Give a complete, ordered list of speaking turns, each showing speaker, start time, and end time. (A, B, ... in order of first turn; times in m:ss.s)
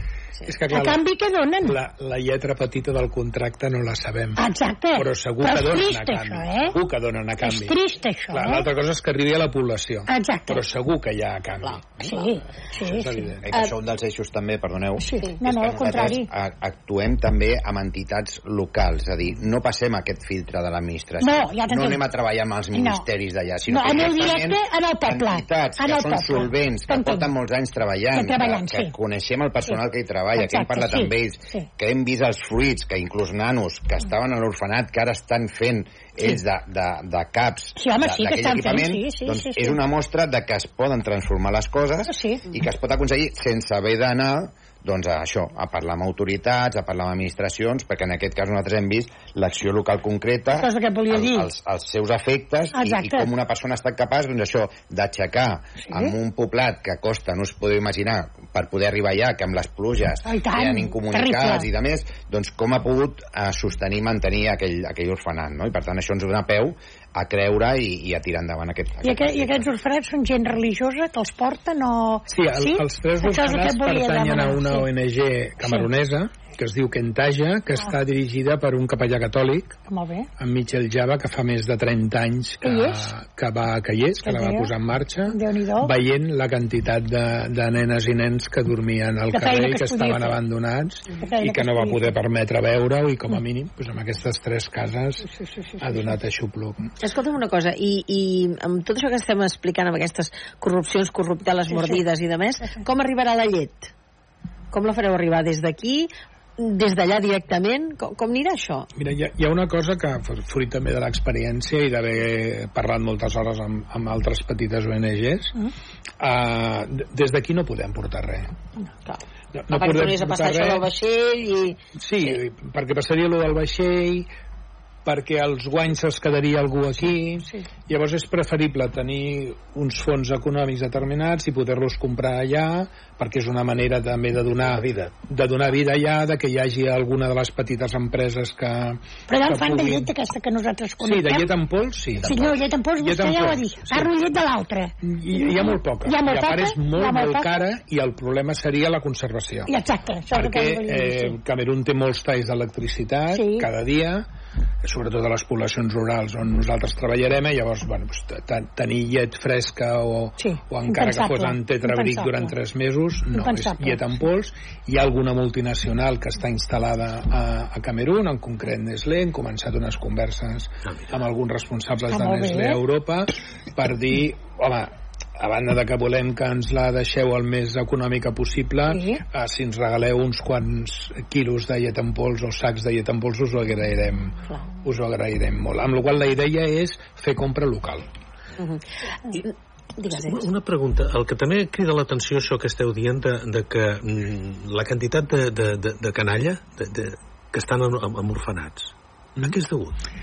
0:00.5-0:01.0 A
0:00.7-0:01.8 B
0:01.6-0:07.8 A
0:04.4-0:06.8 B
0:07.4-0:08.7 B
0:08.3-0:13.5 A
0:10.1-0:10.6 B
0:12.0-0:13.4 B
0:13.4-1:09.7 C
0:15.0-0:16.3 B
0:21.2-0:22.0 B
0:22.7-0:23.0 B
0:23.7-0:27.3 B
0:28.1-0:28.9 B
0:30.4-0:31.7 B
0:37.8-0:39.8 B
0:42.1-0:42.5 B
0:50.6-0:51.5 B
0:52.8-0:53.3 B
0:55.8-0:56.2 B
1:00.2-1:01.7 B
1:09.0-1:14.9 B
1:12.3-1:19.8 A
1:15.6-1:15.9 B
1:19.9-1:20.3 B
1:20.4-1:35.3 A
1:22.6-1:23.1 B
1:24.2-1:24.7 B
1:25.3-1:26.0 B
1:29.3-1:30.4 B
1:31.2-1:32.1 B
1:35.4-1:36.2 B
1:35.8-1:36.9 A
1:37.0-1:43.9 D
1:41.7-1:42.0 B
1:44.7-1:48.9 D
1:49.0-1:55.6 A
1:56.2-1:58.5 A
1:59.1-2:02.4 D
1:59.5-2:00.9 A
2:02.0-2:04.3 A
2:05.0-2:20.1 A
2:14.6-2:15.1 E
2:19.3-2:21.5 B
2:21.0-2:24.1 A
2:22.2-2:27.6 B
2:22.2-2:22.6 E
2:25.0-2:29.7 A
2:29.7-2:31.4 B
2:30.3-2:34.3 A
2:33.3-2:33.7 B
2:34.8-3:08.1 A
2:40.4-2:42.5 B
2:43.3-2:44.1 B
2:52.1-2:52.8 B
2:58.9-2:59.2 B
3:09.4-3:10.5 D
3:10.1-3:20.0 E